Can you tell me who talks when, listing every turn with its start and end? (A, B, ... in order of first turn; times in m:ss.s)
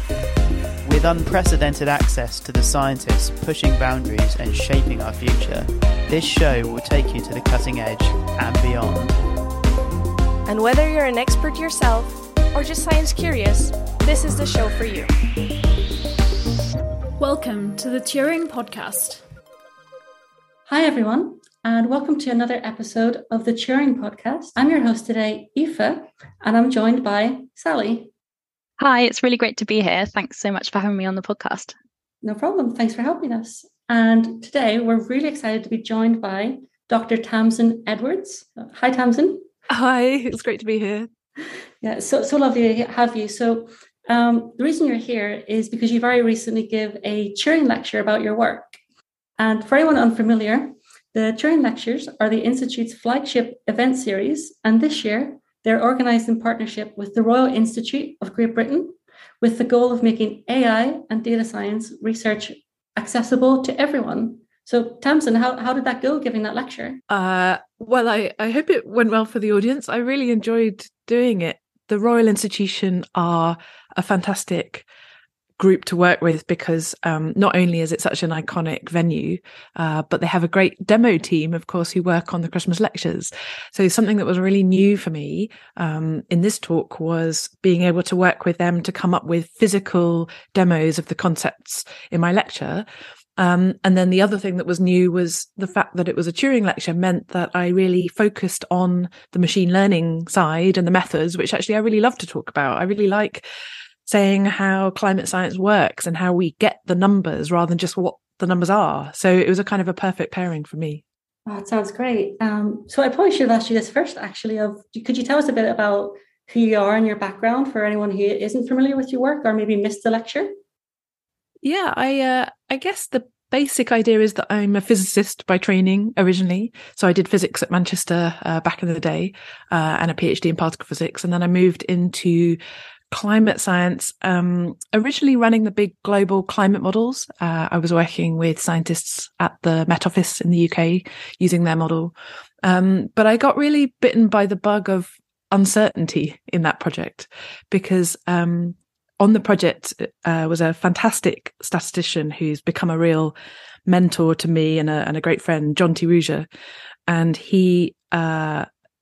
0:00.8-0:09.1 A
0:10.4-0:15.1 B
0:17.2-0:19.2 C
0:20.7-0:28.1 D
0:28.8-0:31.7 E
0:32.2-0:39.4 D
0:39.7-0:41.1 F
0:41.8-0:48.8 D
0:49.4-1:07.0 D
1:07.1-1:14.8 F
1:15.6-1:32.8 F
1:33.4-1:43.4 F
1:44.0-1:51.0 F
1:51.4-2:00.5 D
2:01.6-2:12.6 F
2:13.1-2:33.3 F
2:33.9-2:36.5 F
2:37.1-2:38.7 F